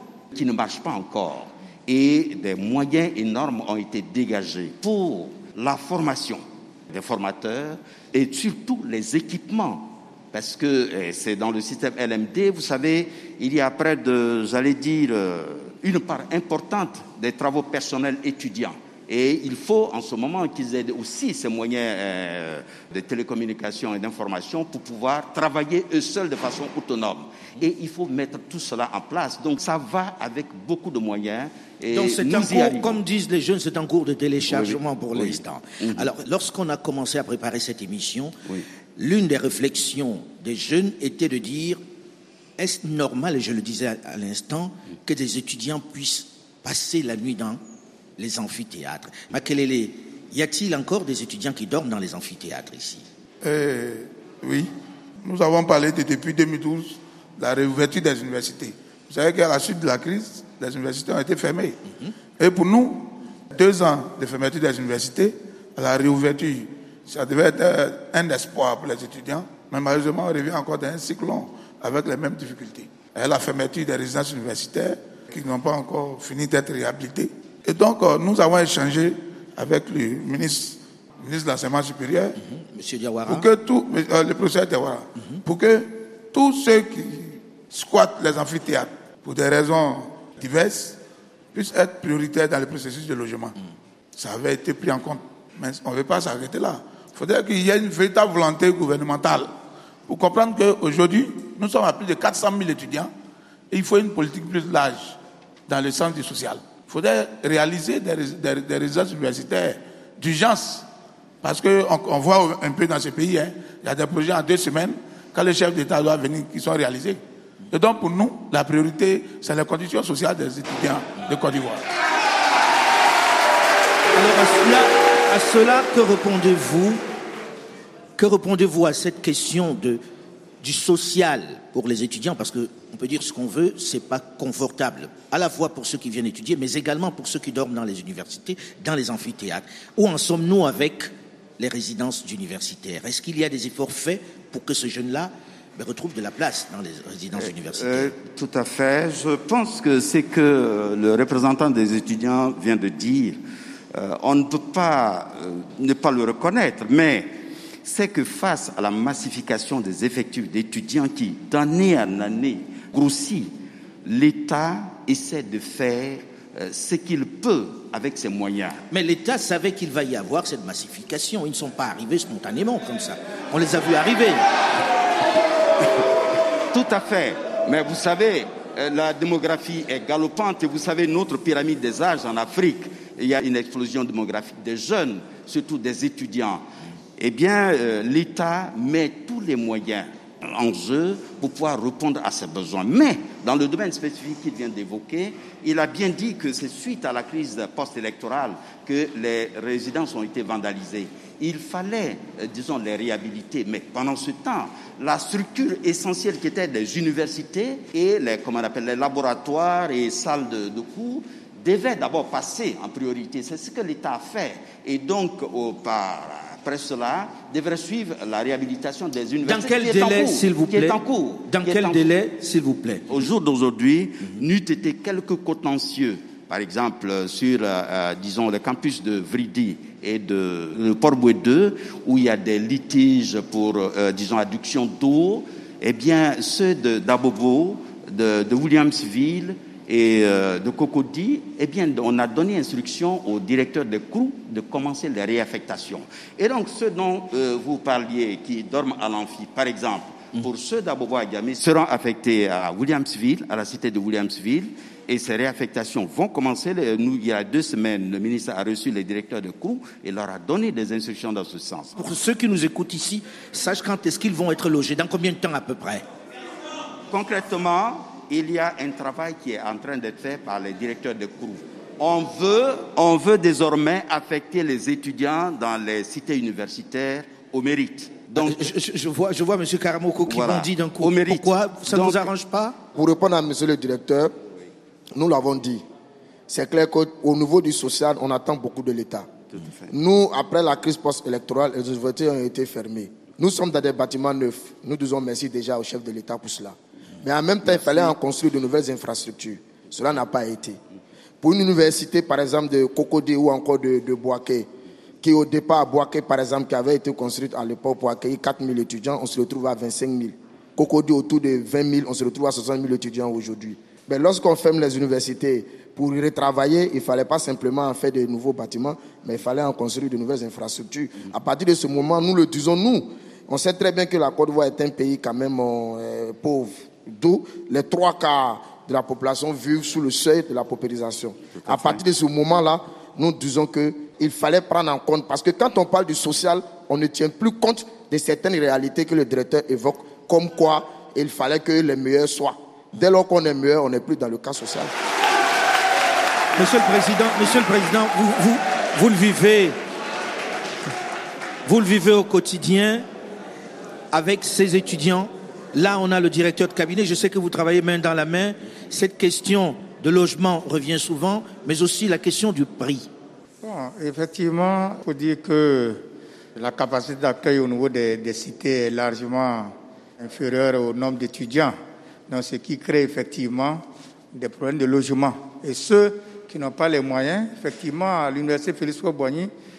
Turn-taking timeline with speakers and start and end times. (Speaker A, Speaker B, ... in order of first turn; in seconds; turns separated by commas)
Speaker A: 0.3-33.0, Speaker B: 31.9-38.4, Speaker A: 34.5-36.1, Speaker B: 39.0-41.8, Speaker B: 42.6-47.6, Speaker B: 48.2-53.0, Speaker C: 53.4-54.7, Speaker C: 55.2-61.8, Speaker C: 62.4-82.4, Speaker B: 82.4-83.5, Speaker C: 83.2-91.0, Speaker C: 91.5-93.5, Speaker C: 94.2-99.5, Speaker C: 100.1-103.1, Speaker C: 103.7-110.8, Speaker C: 111.4-117.2, Speaker C: 117.7-121.8, Speaker B: 124.1-127.0, Speaker B: 128.2-130.0, Speaker B: 130.6-148.1, Speaker A: 147.4-153.4, Speaker A: 153.9-157.3, Speaker A: 157.8-163.5, Speaker A: 164.0-168.8, Speaker B: 168.9-174.4, Speaker A: 176.7-186.6, Speaker A: 187.2-222.1, Speaker B: 219.4-223.1, Speaker A: 223.1-262.0, Speaker B: 261.9-266.0, Speaker A: 267.1-278.7, Speaker B: 278.4-282.8, Speaker A: 280.3-282.3, Speaker D: 282.9-284.3, Speaker D: 285.1-285.8, Speaker D: 286.5-289.3, Speaker A: 289.5-289.9, Speaker D: 289.9-300.8, Speaker A: 297.8-298.0, Speaker D: 301.4-304.7, Speaker D: 305.2-344.9, Speaker A: 331.6-332.0, Speaker B: 346.6-349.8, Speaker B: 351.6-353.0, Speaker B: 354.1-363.1, Speaker E: 363.6-366.0, Speaker E: 366.6-371.8, Speaker E: 372.3-373.8, Speaker E: 374.3-379.5